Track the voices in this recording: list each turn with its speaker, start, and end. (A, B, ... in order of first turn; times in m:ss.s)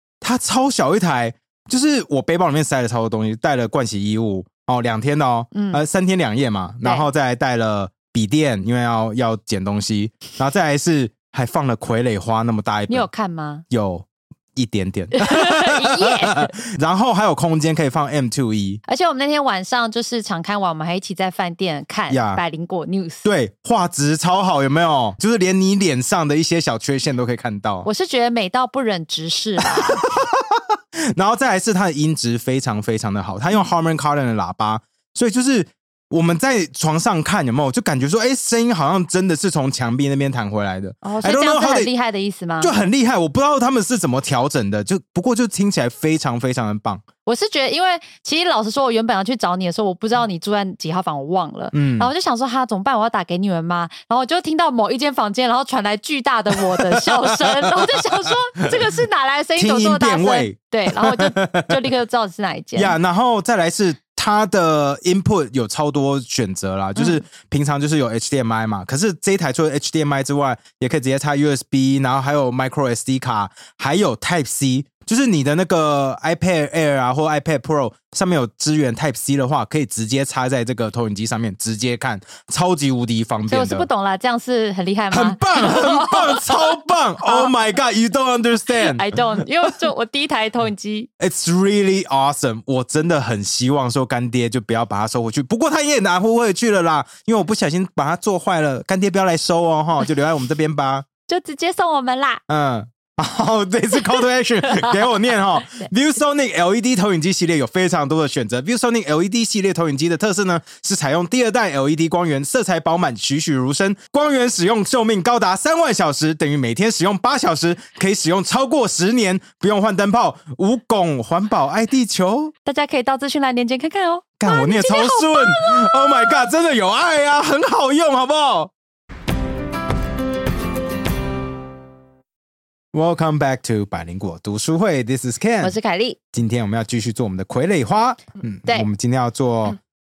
0:00.2-0:13.1 A
0:05.5-0:05.8 B
0:06.8-0:07.1 B
0:12.9-0:13.6 B
0:13.7-0:18.8 A
0:15.2-0:16.5 B
0:18.9-0:23.3 B
0:22.1-0:22.4 A
0:23.2-0:27.9 A
0:27.8-0:30.0 B
0:29.6-0:30.6 A
0:31.2-0:41.9 A
0:41.0-0:42.7 B
0:42.6-0:47.0 A
0:47.3-1:03.0 B
0:51.7-0:52.1 A
0:56.7-0:58.7 A
0:59.6-1:01.8 A
1:02.8-1:23.9 A
1:23.5-1:27.5 B
1:25.1-1:29.4 A
1:28.7-1:31.1 B
1:31.2-1:41.1 A
1:41.3-1:42.4 B
1:42.5-2:02.5 A
1:44.7-1:45.0 B
2:02.7-2:06.3 B
2:04.4-2:08.7 A
2:12.9-2:15.8 A
2:15.6-2:16.2 B
2:16.3-2:19.8 A